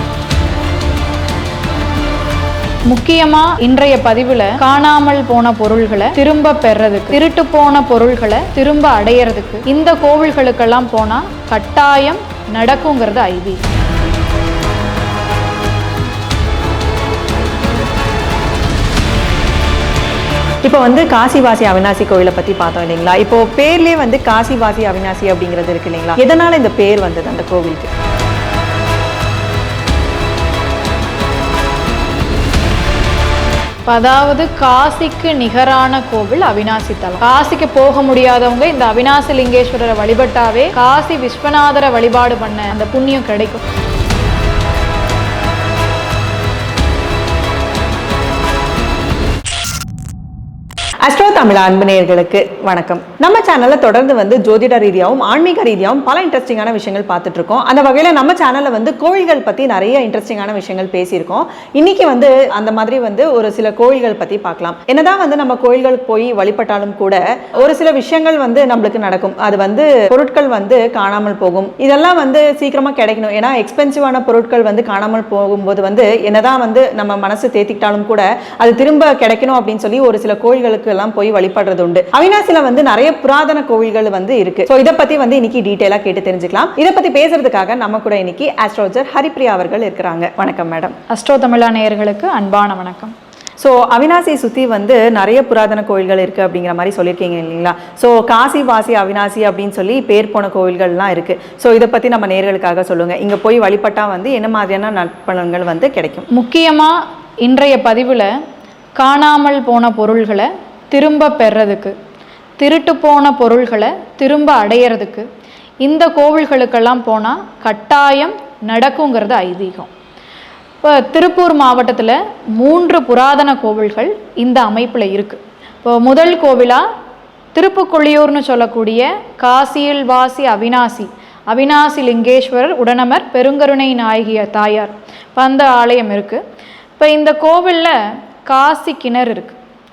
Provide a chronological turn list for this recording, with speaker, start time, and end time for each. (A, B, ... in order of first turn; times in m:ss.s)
0:02.9-0:13.6 A
0:20.6-0:27.9 B
0:33.9-0:43.6 A
0:51.0-1:30.9 B
1:31.1-1:33.1 A
1:33.6-1:46.3 B
1:46.3-1:48.3 A
1:49.0-1:51.9 A
1:52.6-1:55.2 A
1:55.8-1:59.9 A
2:00.8-2:06.8 A
2:07.5-2:16.4 A
2:17.0-2:17.9 A
2:18.4-2:19.6 A